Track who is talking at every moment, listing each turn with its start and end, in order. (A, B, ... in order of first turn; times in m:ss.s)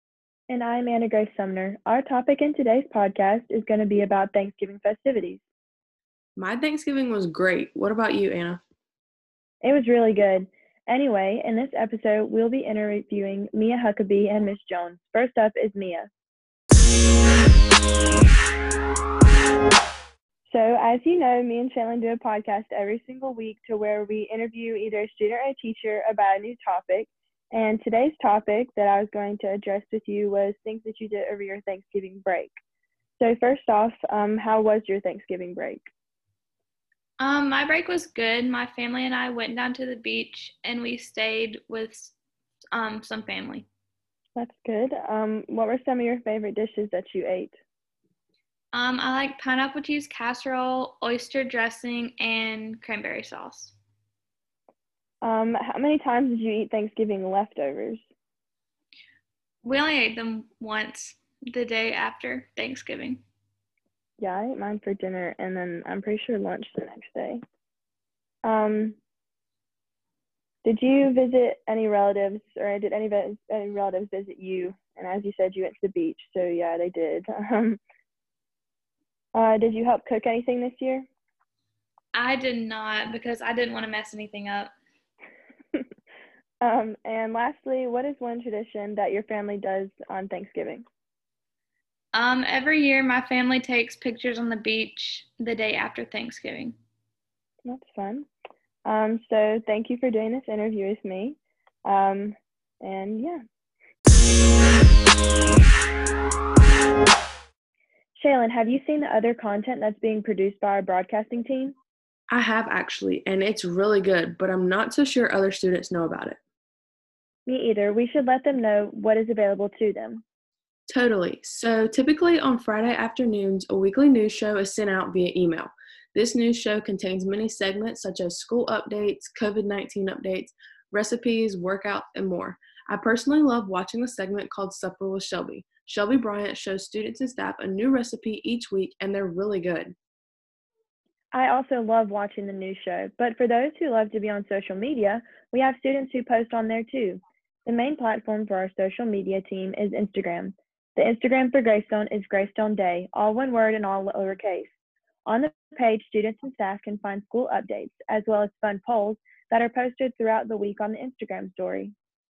0:00.5-0:05.4 A
0:06.4-0:08.6 B
0:09.6-0:16.1 A
0:20.5-0:32.6 A
0:33.2-0:35.8 A
0:37.2-0:42.1 C
0:42.7-0:43.7 C
0:44.4-0:47.5 A
0:48.7-0:53.7 C
0:55.2-0:58.0 A
0:59.6-1:03.2 C
1:04.2-1:07.4 A
1:08.4-1:09.0 A
1:10.6-1:17.8 A
1:19.3-1:21.1 A
1:22.1-1:24.7 C
1:26.6-1:30.8 A
1:32.1-1:36.8 C
1:37.6-1:38.3 A
1:38.8-1:43.4 A
1:48.2-1:51.8 A
1:52.3-1:56.4 B
1:57.4-2:00.2 A
2:00.9-2:19.9 B
2:21.3-2:34.7 A
2:35.2-2:41.9 A